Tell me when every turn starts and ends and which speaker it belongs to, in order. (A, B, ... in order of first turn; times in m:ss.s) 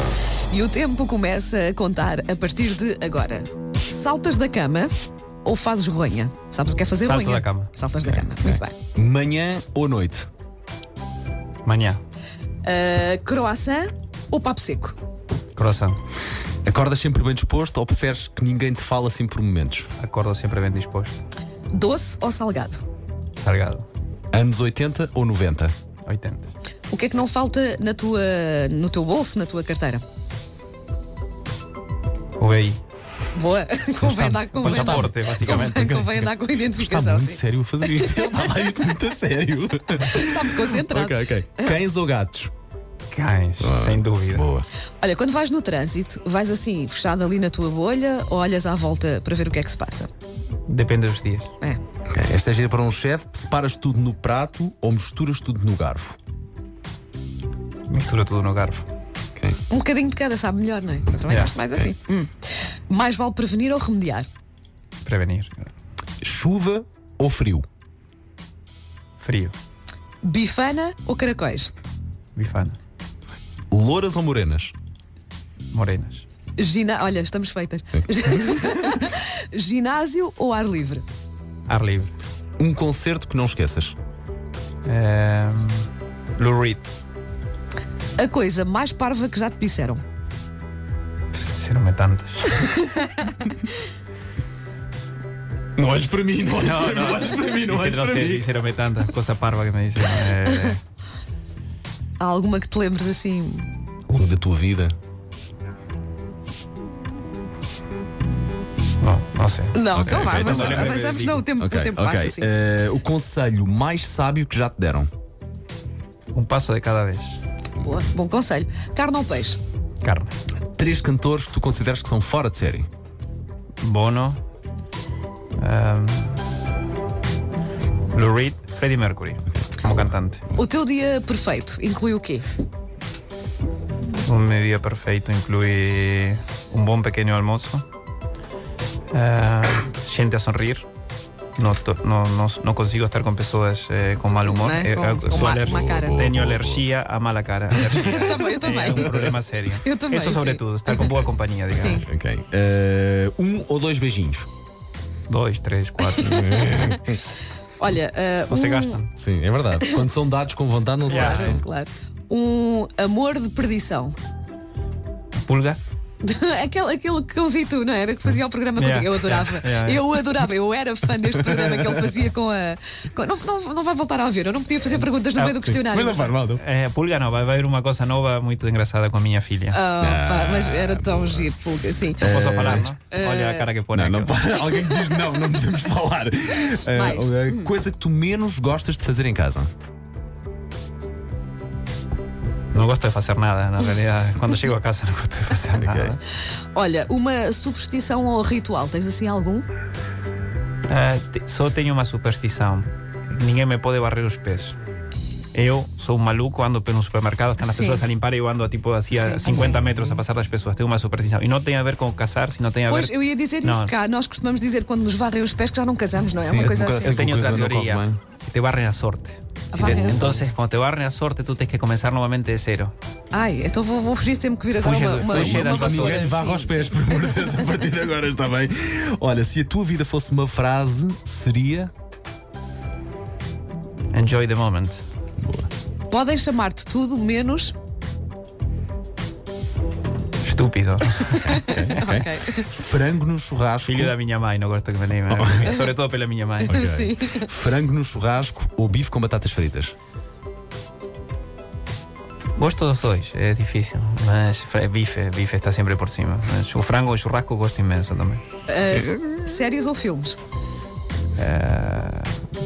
0:00.5-0:04.9 A
0:05.4-0:08.7 A
0:07.0-0:07.7 B
0:08.0-0:10.3 C
0:11.6-0:12.0 B
0:12.6-0:15.0 A
0:15.6-0:16.0 B
0:16.6-0:19.9 C
0:20.0-0:21.2 B
0:21.7-0:22.8 A
0:23.4-0:23.8 B
0:24.3-0:25.7 C
0:26.1-0:26.5 B
0:26.9-0:30.0 A
0:32.4-0:32.8 B
0:33.3-0:37.4 A
0:34.0-0:42.5 C
0:34.6-0:35.8 B
0:40.0-0:41.8 A
0:43.1-0:44.5 B
0:43.6-0:44.7 C
0:45.0-0:50.1 A
0:50.7-0:51.5 B
0:52.1-0:56.2 C
0:57.9-0:58.9 B
0:59.7-1:04.3 A
1:05.0-1:05.7 B
1:06.2-1:07.6 C
1:09.2-1:09.5 B
1:10.2-1:11.7 A
1:12.4-1:12.8 B
1:13.7-1:14.7 C
1:15.7-1:16.2 B
1:16.6-1:21.0 A
1:21.7-1:22.1 B
1:22.6-1:24.0 C
1:24.8-1:26.9 B
1:28.2-1:30.0 A
1:31.3-1:32.7 B
1:32.7-1:33.2 A
1:35.8-1:38.5 C
1:36.6-1:40.8 B
1:42.2-1:43.7 A
1:44.1-1:45.0 C
1:49.0-1:51.5 B
1:49.7-1:52.5 A
1:50.0-1:51.0 C
1:51.6-1:55.1 C
1:56.3-1:57.4 B
1:57.8-1:59.6 A
2:00.0-2:00.3 B
2:00.7-2:02.9 C
2:03.8-2:04.4 B
2:05.6-2:06.4 B
2:08.1-2:10.4 B
2:10.5-2:12.5 A
2:14.2-2:17.8 B
2:19.1-2:20.9 B
2:21.6-2:32.0 B
2:24.5-2:26.2 A
2:25.6-2:26.8 C
2:27.8-2:31.1 A
2:31.7-2:32.0 A
2:31.8-2:34.5 C
2:35.3-2:36.6 B
2:36.2-2:37.2 C
2:36.4-2:36.8 A
2:37.8-2:39.0 A
2:38.5-2:39.1 B
2:39.2-2:41.6 C
2:41.1-2:41.6 B
2:41.1-2:44.2 A
2:45.4-2:45.8 B
2:46.2-2:56.4 A
2:48.8-2:50.1 B
2:51.3-2:52.0 C
2:55.0-2:55.7 B
2:55.6-2:56.6 C
2:56.4-2:59.8 B
2:59.7-3:03.7 A
3:00.0-3:01.5 C
3:02.2-3:02.9 C
3:02.2-3:04.4 B
3:03.9-3:09.7 C
3:04.5-3:05.3 A
3:06.9-3:07.7 A
3:12.7-3:16.2 B
3:15.8-3:16.2 C
3:16.7-3:19.7 A
3:20.9-3:24.8 B
3:25.5-3:33.9 B
3:27.6-3:28.0 A
3:29.1-3:29.8 A
3:32.9-3:37.3 A
3:36.4-3:38.2 C
3:37.0-3:42.9 B
3:39.7-3:40.4 A
3:39.8-3:40.4 C
3:43.3-3:47.5 A
3:44.8-3:46.3 B
3:45.2-3:51.9 C
3:54.1-3:55.0 B
3:55.4-3:55.7 C
3:56.1-3:57.7 A
4:00.4-4:01.9 B
4:01.4-4:02.7 A
4:01.6-4:04.1 C
4:03.8-4:06.8 B
4:05.3-4:05.7 C
4:06.7-4:07.5 A
4:06.7-4:10.0 C
4:12.6-4:18.4 B
4:18.7-4:20.4 A
4:21.4-4:22.4 B